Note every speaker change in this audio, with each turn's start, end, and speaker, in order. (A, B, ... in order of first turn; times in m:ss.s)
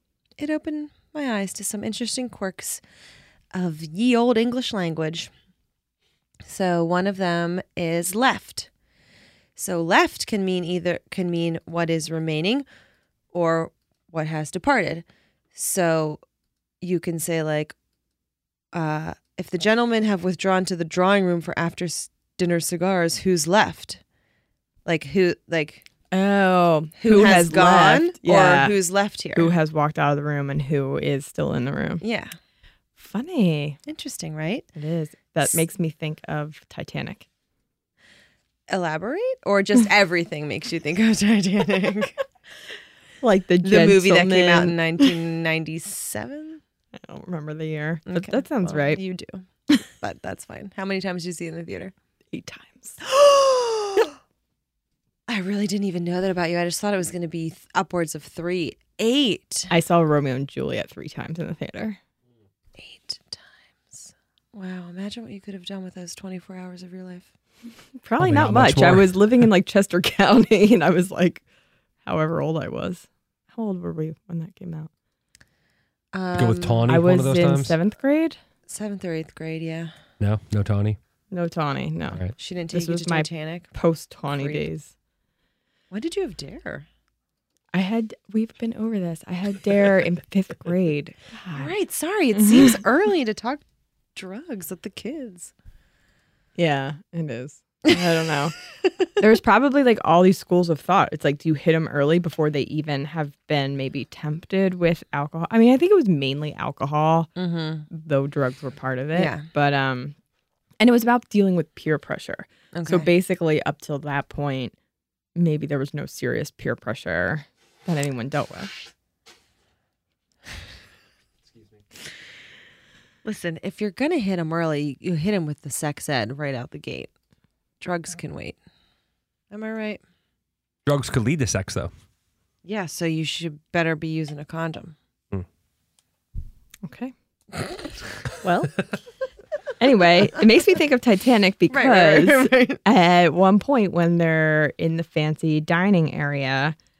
0:00.4-0:02.8 A
0:03.5-0:05.3 A
0:06.4-0:08.7 A
0:09.6-0:12.6 A
0:13.3-0:16.2 A
0:16.8-0:17.7 A
0:18.7-0:24.0 A
0:24.8-0:25.8 A
0:26.1-0:28.7 B
0:27.0-0:29.5 A
0:29.4-0:32.0 B
0:32.0-0:32.3 A
0:33.0-0:33.8 B
0:33.9-0:34.7 A
0:34.7-0:37.3 B
0:38.7-0:42.2 A
0:43.2-0:45.1 B
0:43.6-0:46.6 A
0:47.0-0:49.0 B
0:48.1-0:51.9 A
0:52.3-0:53.0 B
0:53.0-0:54.1 A
0:55.3-0:59.7 A
0:59.7-1:02.0 B
1:02.8-1:07.3 A
1:08.0-1:11.4 B
1:08.2-1:09.4 C
1:12.0-1:14.9 B
1:16.1-1:16.9 A
1:16.3-1:17.8 C
1:16.8-1:18.4 B
1:18.7-1:19.9 A
1:20.2-1:21.0 C
1:21.3-1:24.9 B
1:22.4-1:23.7 A
1:24.4-1:24.6 A
1:25.9-1:26.8 A
1:27.7-1:31.7 B
1:31.5-1:33.6 A
1:32.3-1:32.8 B
1:34.1-1:35.5 A
1:36.6-1:38.6 B
1:39.2-1:47.3 B
1:47.4-1:47.9 A
1:47.9-1:50.2 B
1:49.1-1:49.4 A
1:50.8-1:54.7 B
1:52.7-1:53.1 A
1:55.4-1:58.7 B
2:03.2-2:07.1 A
2:07.8-2:08.6 A
2:09.5-2:10.0 A
2:10.8-2:11.9 C
2:12.6-2:15.0 A
2:16.8-2:17.1 B
2:18.4-2:18.9 B
2:19.8-2:26.8 B
2:21.7-2:22.8 A